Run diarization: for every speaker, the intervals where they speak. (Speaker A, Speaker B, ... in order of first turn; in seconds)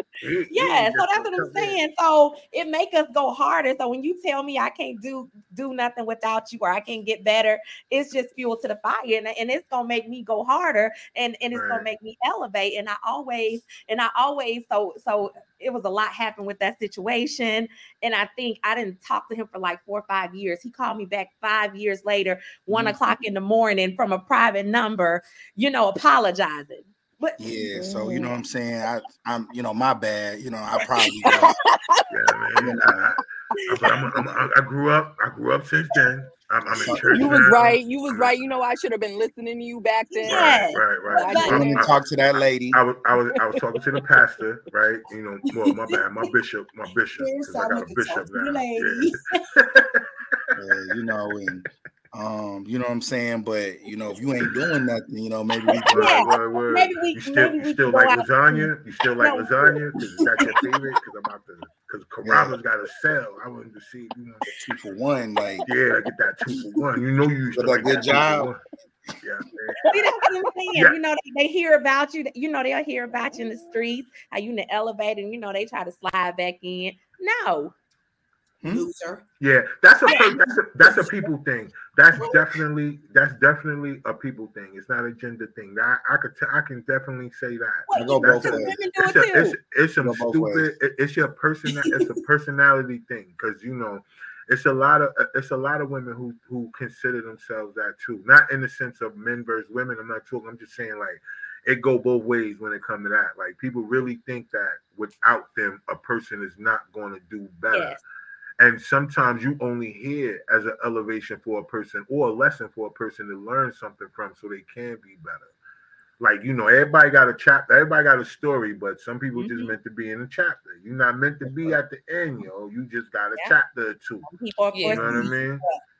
Speaker A: 0.2-1.8, 11.5-11.9, 32.1-38.4, 40.2-42.0, 42.7-50.5, 55.7-64.4, 65.7-68.6, 69.2-70.0, 79.4-108.0, 108.6-115.5, 116.2-124.3, 124.9-125.6
Speaker B: 0.5-27.4, 40.1-41.8, 55.9-58.6, 59.2-59.7, 69.9-77.7, 80.0-80.4, 87.9-89.5, 107.7-108.0, 119.3-119.7, 124.2-125.3
Speaker C: 27.4-31.5, 32.6-33.0, 36.8-37.3, 41.4-42.8, 50.6-56.1, 62.2-62.5, 64.5-65.7, 67.5-68.5, 78.6-78.9, 87.9-88.8, 90.0-90.7
Speaker D: 27.6-28.3, 31.2-32.1, 37.0-41.9
Speaker E: 45.5-46.0, 47.2-49.6, 78.7-79.2, 124.7-125.8